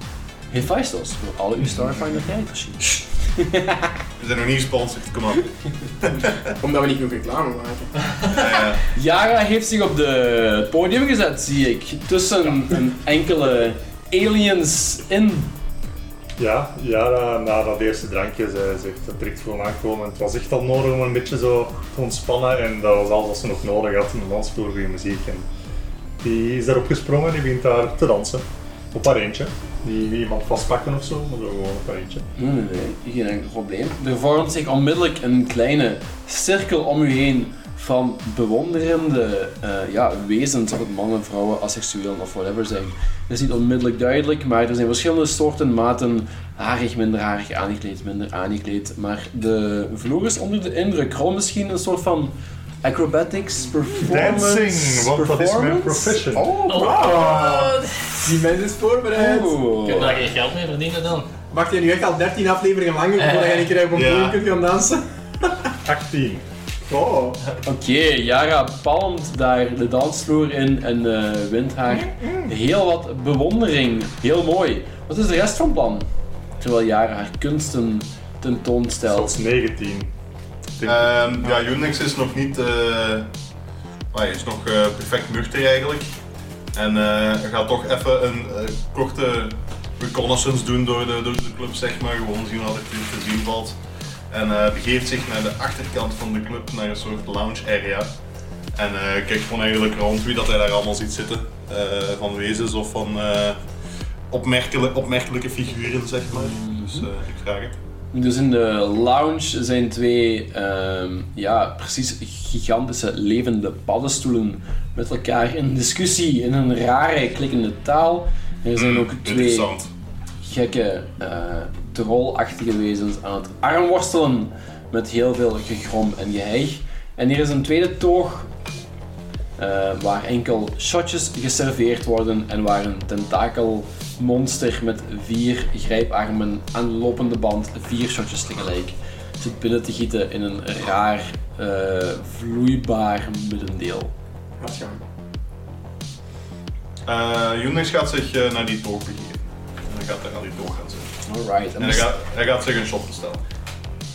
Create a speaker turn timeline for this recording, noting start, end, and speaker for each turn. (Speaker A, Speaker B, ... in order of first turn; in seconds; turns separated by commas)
Speaker A: 0.5-4.0, Speaker B: 1.8-2.2, Speaker B: 4.2-6.5, Speaker C: 6.6-8.4, Speaker B: 8.3-8.8, Speaker A: 8.9-15.5, Speaker D: 16.4-25.5, Speaker D: 26.2-32.2, Speaker A: 32.4-57.1, Speaker D: 54.0-56.5, Speaker E: 56.7-58.3, Speaker C: 56.7-60.1, Speaker B: 57.3-57.6, Speaker A: 59.1-60.2, Speaker E: 59.9-61.3, Speaker C: 61.5-65.0, Speaker E: 63.2-63.6, Speaker B: 63.9-64.4, Speaker D: 65.8-66.4, Speaker C: 66.8-67.4, Speaker A: 67.6-76.1, Speaker D: 71.9-72.5, Speaker A: 76.6-79.3, Speaker D: 79.0-80.1, Speaker D: 80.8-81.1, Speaker B: 80.8-83.3, Speaker B: 84.1-86.1, Speaker B: 86.7-93.8, Speaker B: 94.3-98.1, Speaker B: 98.7-103.6, Speaker B: 104.3-107.8, Speaker A: 106.3-107.1, Speaker A: 108.1-119.7, Speaker B: 118.7-119.9, Speaker A: 120.4-128.5, Speaker A: 129.6-144.1, Speaker C: 144.6-145.0, Speaker B: 147.0-151.1, Speaker A: 151.2-152.1, Speaker B: 151.8-153.4